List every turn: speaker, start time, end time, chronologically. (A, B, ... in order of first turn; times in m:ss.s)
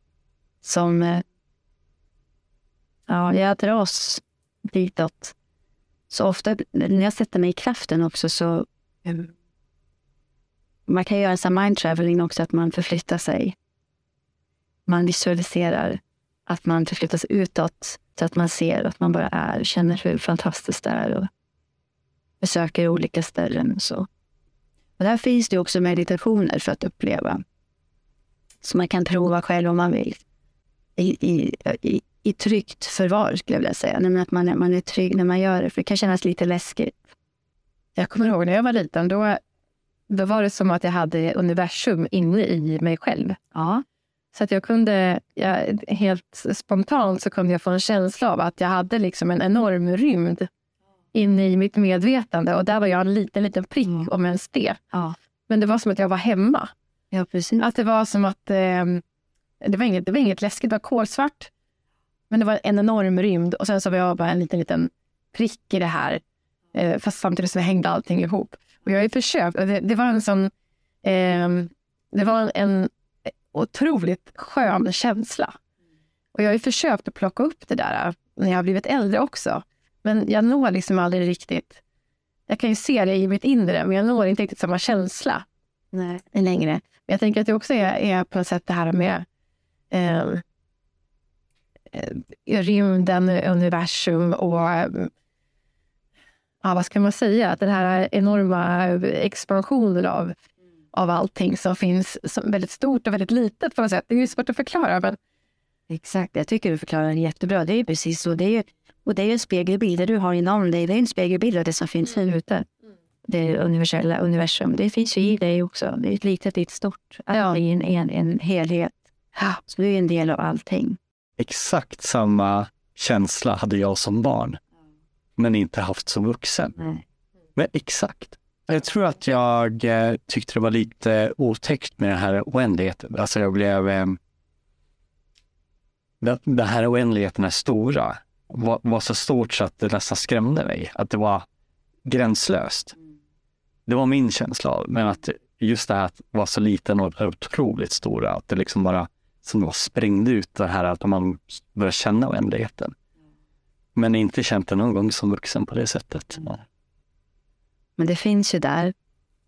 0:00.6-0:01.2 A
0:03.1-0:05.3 A
0:06.1-0:09.3 A
0:10.9-0:13.6 A
0:14.9-0:21.3 A
0:22.4-0:24.1 A
0:25.0-0:27.4 A
0:28.6-0:30.2 A
0:31.0-0:37.0 A
0:38.0-0:39.4 B
0:40.1-0:43.4 B
0:43.5-0:43.8 A
0:44.3-0:50.5 B
0:51.1-0:54.8 B
0:55.5-0:56.7 B
0:57.1-0:57.7 A
0:57.6-0:59.0 B
0:59.6-1:01.5 B
1:02.3-1:06.2 B
1:06.7-1:10.5 B
1:11.0-1:15.6 B
1:16.3-1:21.8 B
1:22.5-1:29.3 B
1:29.9-1:30.4 B
1:31.9-1:35.1 B
1:36.6-1:40.4 B
1:40.9-1:45.2 B
1:45.9-1:52.7 A
1:53.2-1:59.1 A
1:59.6-2:01.0 A
2:01.4-2:04.6 C
2:05.4-2:06.8 C
2:07.6-2:14.2 C
2:16.2-2:21.5 C
2:22.0-2:23.0 C
2:23.9-2:33.0 C
2:34.0-2:36.6 C
2:38.0-2:38.9 A